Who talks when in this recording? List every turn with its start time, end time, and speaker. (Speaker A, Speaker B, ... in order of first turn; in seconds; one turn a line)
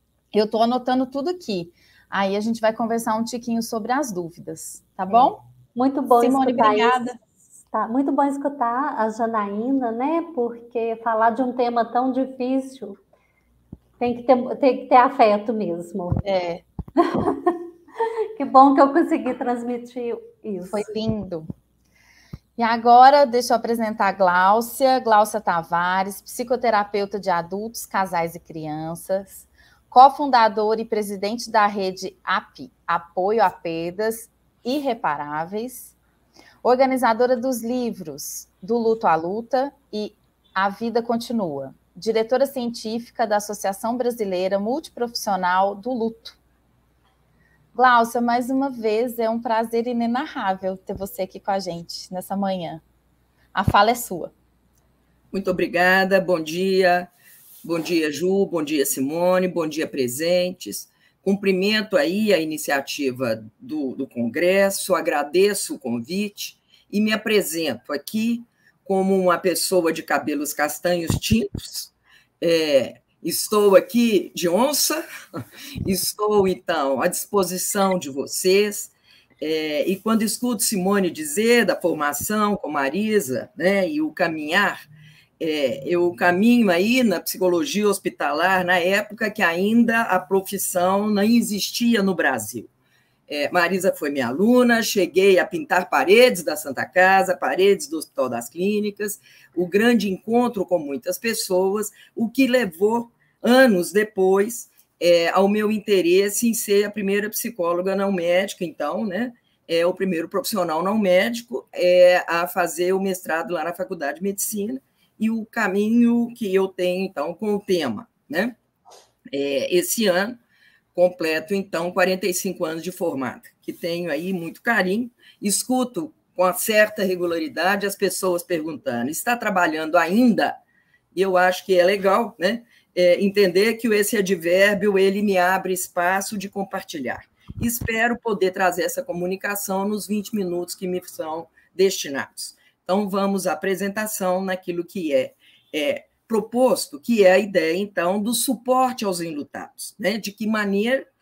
Speaker A: 0.3-5.4
Speaker B: 5.1-7.1
Speaker A: 6.2-7.2
Speaker B: 7.7-13.0
Speaker B: 14.0-16.2
Speaker A: 16.2-16.6
Speaker B: 17.0-17.6
Speaker B: 18.4-20.9
Speaker A: 20.7-21.5
Speaker A: 22.6-36.0
Speaker A: 36.6-46.4
Speaker A: 47.7-52.8
Speaker A: 53.5-54.3
Speaker C: 55.3-57.1
Speaker C: 57.6-75.0
Speaker C: 75.8-84.9
Speaker C: 85.4-92.7
Speaker C: 93.3-118.6
Speaker C: 119.3-120.4
Speaker C: 121.0-130.6
Speaker C: 131.2-151.1